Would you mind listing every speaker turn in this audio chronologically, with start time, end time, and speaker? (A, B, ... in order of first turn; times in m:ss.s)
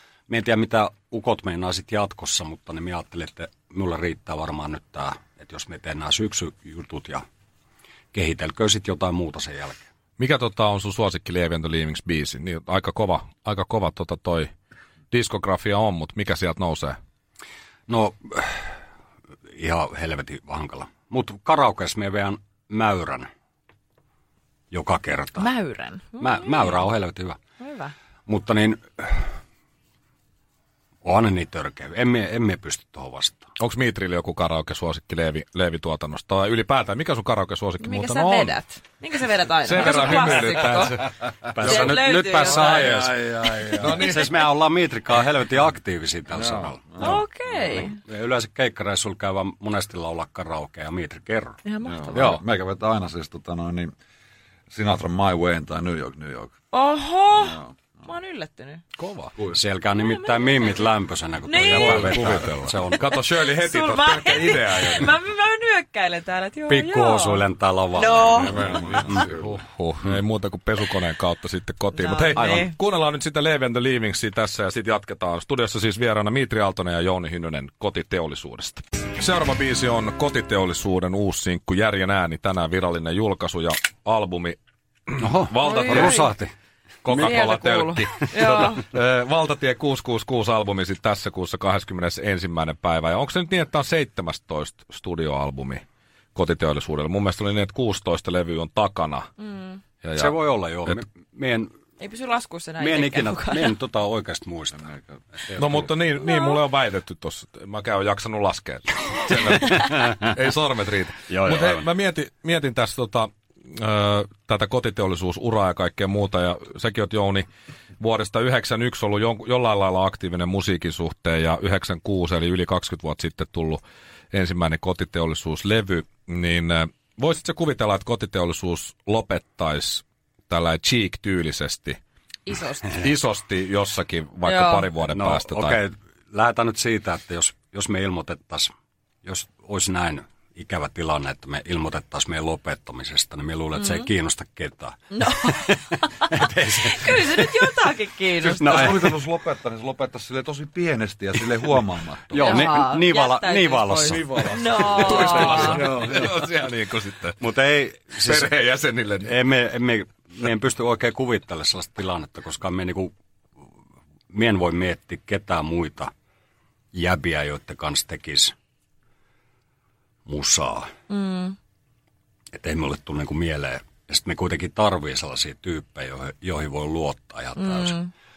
0:00.3-0:07.2 A
0:08.1-0:09.9 A
0:10.2-0:14.5 B
0:15.1-0:17.0 B
0:17.9-0:18.8 A
0:19.5-0:23.3 A
0:24.7-0:25.5 A
0:25.4-0:26.8 C
0:26.2-0:27.4 A
0:27.6-0:27.9 C
0:28.3-0:29.3 A
0:31.0-0:33.5 A
0:33.6-0:38.6 B
0:37.8-0:43.1 C
0:39.6-0:41.1 B
0:41.5-0:51.6 A
0:42.5-0:44.1 D
0:43.8-0:44.3 B
0:46.3-0:47.3 D
0:47.0-0:48.0 C
0:51.6-0:52.4 C
0:51.8-0:53.9 D
0:52.1-0:52.4 A
0:54.7-0:56.6 D
0:56.7-0:58.8 C
0:57.3-0:58.0 D
0:59.0-0:59.3 B
0:59.5-1:03.1 A
1:00.0-1:00.9 C
1:01.4-1:02.2 C
1:01.8-1:05.1 B
1:01.9-1:02.6 D
1:03.5-1:07.4 C
1:06.7-1:08.5 A
1:08.0-1:09.2 C
1:08.3-1:09.6 D
1:08.7-1:26.2 B
1:11.9-1:12.8 C
1:25.2-1:26.5 A
1:25.6-1:26.3 C
1:27.0-1:35.8 B
1:27.1-1:28.8 C
1:36.4-1:39.3 B
1:39.4-1:39.8 C
1:40.0-1:41.0 B
1:40.2-1:41.7 A
1:42.0-1:43.7 C
1:42.8-1:44.9 A
1:44.7-1:45.4 D
1:45.4-1:45.9 A
1:45.6-1:57.5 B
1:46.3-1:46.6 C
1:51.3-1:51.9 A
1:58.0-2:03.8 B
2:04.3-2:12.0 B
2:12.5-2:13.1 C
2:13.0-2:15.8 B
2:14.4-2:14.9 C
2:15.0-2:18.7 A
2:19.2-2:25.8 A
2:23.8-2:24.1 C
2:25.1-2:29.1 C
2:26.3-2:27.6 A
2:28.4-2:32.8 D
2:28.6-2:29.2 A
2:32.3-2:34.3 A
2:32.4-2:35.9 C
2:34.1-2:37.4 B
2:34.9-2:36.2 D
2:37.4-2:38.6 A
2:38.2-2:39.5 B
2:39.2-2:43.1 A
2:44.3-2:46.1 A
2:46.9-2:48.6 A
2:50.3-2:50.9 A
2:51.1-2:51.6 C
2:52.5-2:58.0 A
2:57.6-2:58.1 C